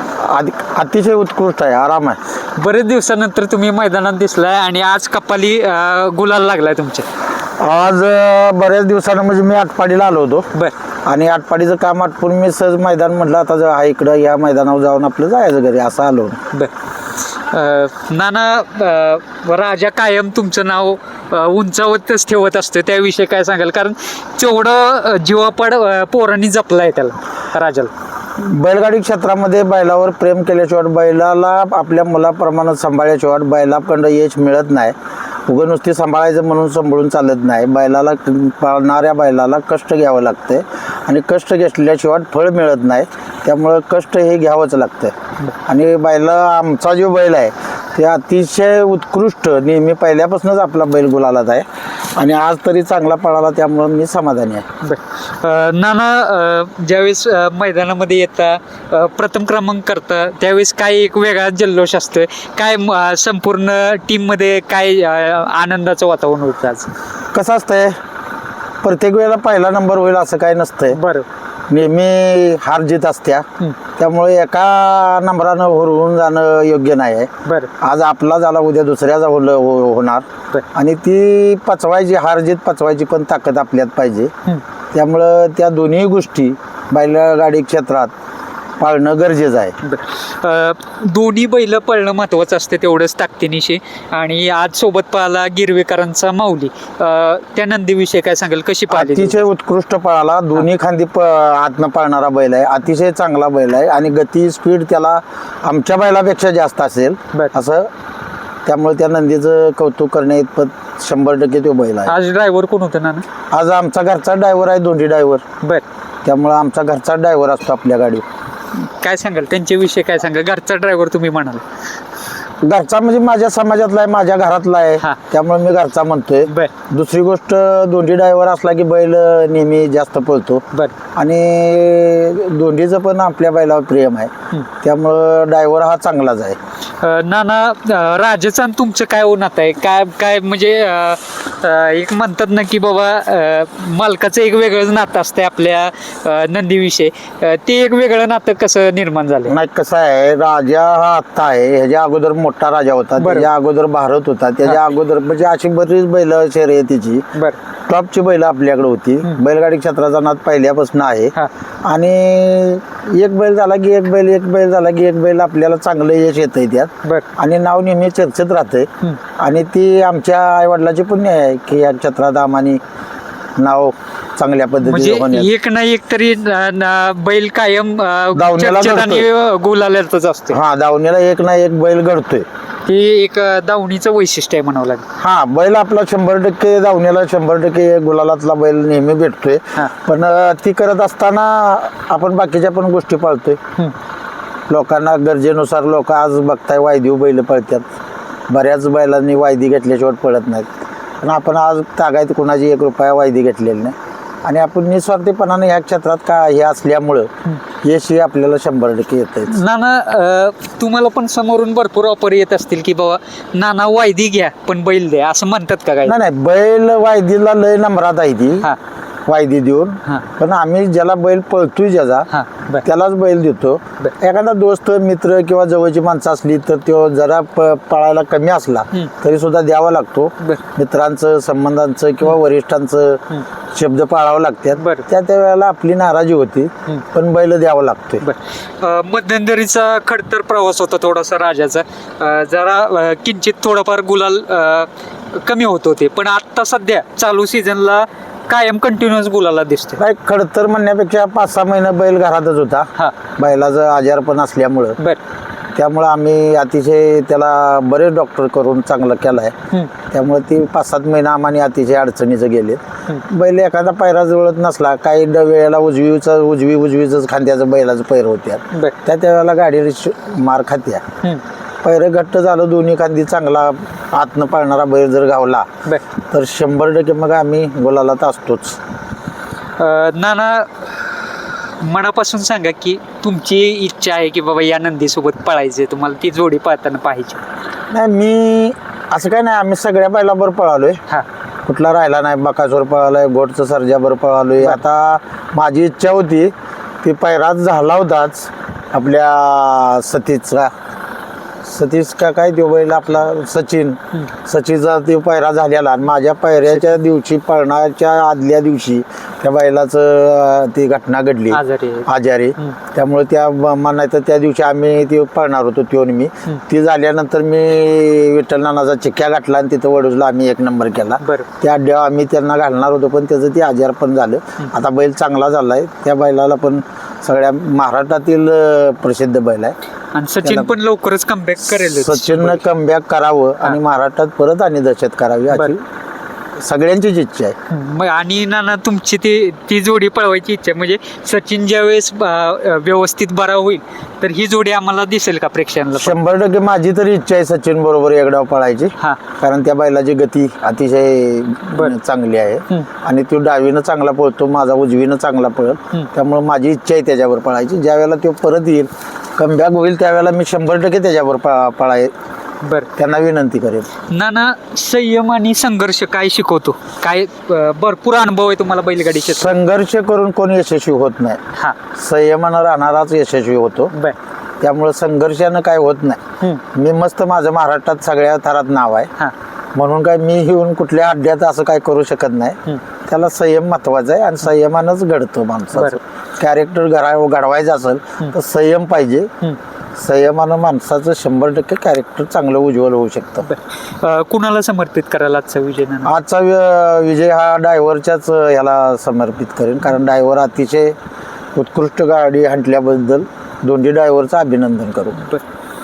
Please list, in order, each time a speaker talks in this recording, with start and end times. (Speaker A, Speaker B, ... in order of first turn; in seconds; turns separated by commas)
Speaker A: 0.2-2.2, Speaker B: 2.5-7.0, Speaker A: 7.6-10.5, Speaker A: 11.0-16.4, Speaker B: 17.3-27.9, Speaker A: 28.4-34.9, Speaker A: 35.5-54.6, Speaker B: 54.8-66.9, Speaker A: 67.3-68.0, Speaker A: 68.8-71.0, Speaker B: 70.9-71.3, Speaker A: 71.7-73.4, Speaker A: 74.0-84.3, Speaker B: 77.4-77.7, Speaker A: 84.9-88.1, Speaker A: 88.8-89.8, Speaker B: 89.8-99.4, Speaker A: 98.9-107.9, Speaker A: 108.7-112.1, Speaker B: 112.0-113.2, Speaker A: 113.5-115.4, Speaker A: 116.2-118.2, Speaker B: 118.8-121.6, Speaker A: 122.6-130.6, Speaker B: 126.5-126.7, Speaker A: 131.1-134.3, Speaker A: 134.8-136.6, Speaker B: 137.0-149.5, Speaker A: 149.5-157.3, Speaker B: 153.2-153.5, Speaker A: 157.9-172.8, Speaker A: 173.6-175.5, Speaker B: 174.8-180.6, Speaker A: 178.3-179.3, Speaker A: 180.5-182.4, Speaker B: 182.8-185.0, Speaker A: 185.2-193.6, Speaker A: 194.7-197.9, Speaker A: 198.5-207.3, Speaker A: 207.8-209.5, Speaker B: 209.5-216.2, Speaker A: 216.0-218.7, Speaker A: 219.2-222.3, Speaker B: 222.3-222.8, Speaker A: 222.8-233.2, Speaker A: 233.7-238.2, Speaker B: 234.8-235.1, Speaker B: 238.2-250.0, Speaker A: 250.0-255.0, Speaker A: 255.8-259.5, Speaker A: 260.1-271.0, Speaker A: 271.8-275.7, Speaker A: 276.3-278.8, Speaker B: 279.8-287.4, Speaker A: 287.9-291.0, Speaker A: 291.6-300.7, Speaker A: 301.6-329.7, Speaker B: 311.5-312.8, Speaker B: 321.2-321.5, Speaker B: 330.1-332.6, Speaker A: 330.4-330.7, Speaker A: 331.7-335.8, Speaker A: 336.6-337.5, Speaker B: 337.7-346.2, Speaker A: 345.9-362.1, Speaker B: 362.6-362.9, Speaker A: 363.0-363.9, Speaker B: 364.1-369.5, Speaker A: 369.2-371.4, Speaker A: 371.9-373.9, Speaker A: 374.6-376.2, Speaker A: 376.7-379.1, Speaker A: 379.7-389.3, Speaker A: 390.0-393.5, Speaker B: 393.4-396.1, Speaker A: 396.0-400.9, Speaker A: 401.5-405.2